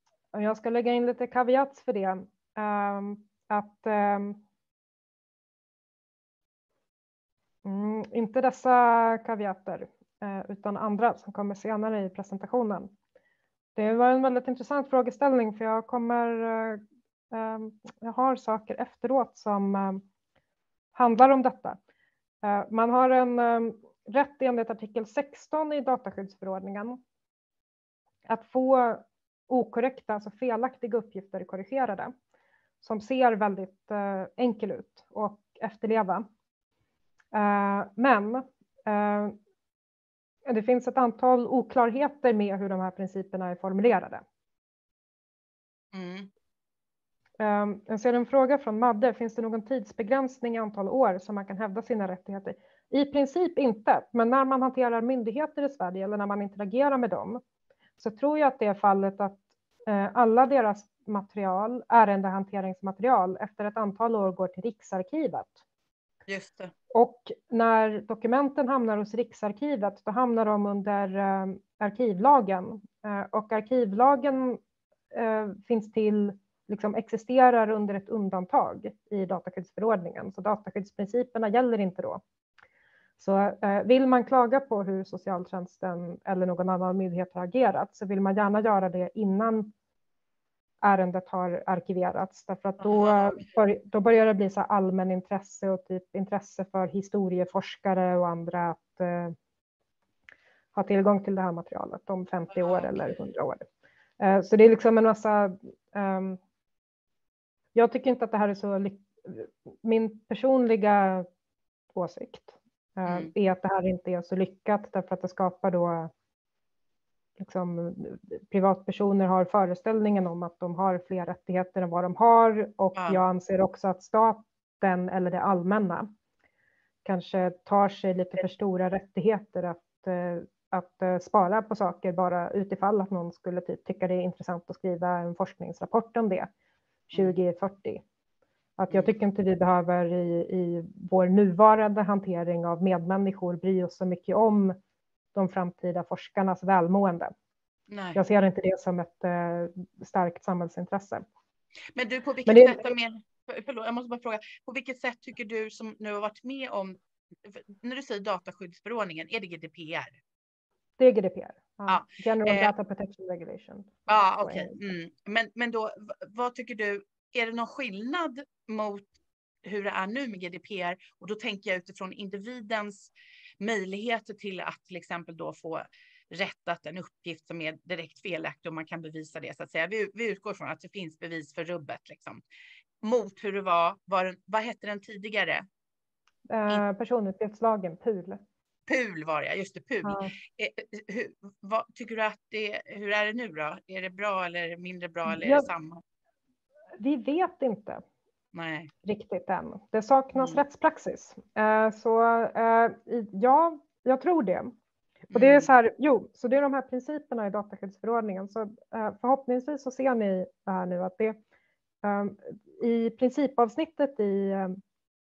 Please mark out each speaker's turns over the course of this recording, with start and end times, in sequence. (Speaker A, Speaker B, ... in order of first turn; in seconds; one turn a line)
Speaker A: 0.3-4.4
Speaker A: 7.6-12.9
Speaker A: 13.8-20.0
Speaker A: 20.9-21.8
Speaker A: 22.4-27.0
Speaker A: 28.3-32.1
Speaker A: 32.8-36.3
Speaker A: 37.3-39.4
Speaker A: 40.5-44.2
Speaker B: 45.9-46.3
Speaker A: 47.4-57.4
Speaker A: 58.0-65.6
Speaker B: 66.3-66.7
Speaker A: 66.9-74.6
Speaker A: 75.1-82.2
Speaker A: 83.2-89.7
Speaker A: 90.8-99.4
Speaker B: 92.8-93.5
Speaker A: 100.8-103.7
Speaker B: 102.6-103.1
Speaker A: 104.2-106.4
Speaker A: 107.8-111.3
Speaker A: 111.9-116.1
Speaker B: 113.1-113.3
Speaker A: 117.4-126.1
Speaker A: 127.0-136.5
Speaker B: 137.1-137.4
Speaker A: 137.1-138.0
Speaker A: 138.8-144.8
Speaker A: 145.3-147.3
Speaker B: 147.9-148.2
Speaker A: 148.2-151.2
Speaker B: 151.9-160.2
Speaker A: 152.5-152.9
Speaker A: 161.0-164.8
Speaker B: 161.9-162.7
Speaker B: 164.1-169.1
Speaker B: 169.6-182.4
Speaker B: 183.0-185.7
Speaker A: 186.5-188.4
Speaker B: 188.9-196.0
Speaker A: 190.0-190.3
Speaker A: 195.3-195.7
Speaker A: 197.0-198.0
Speaker B: 198.5-198.9
Speaker A: 199.0-204.8
Speaker B: 200.3-200.6
Speaker B: 205.3-205.7
Speaker A: 205.3-211.4
Speaker A: 212.0-214.8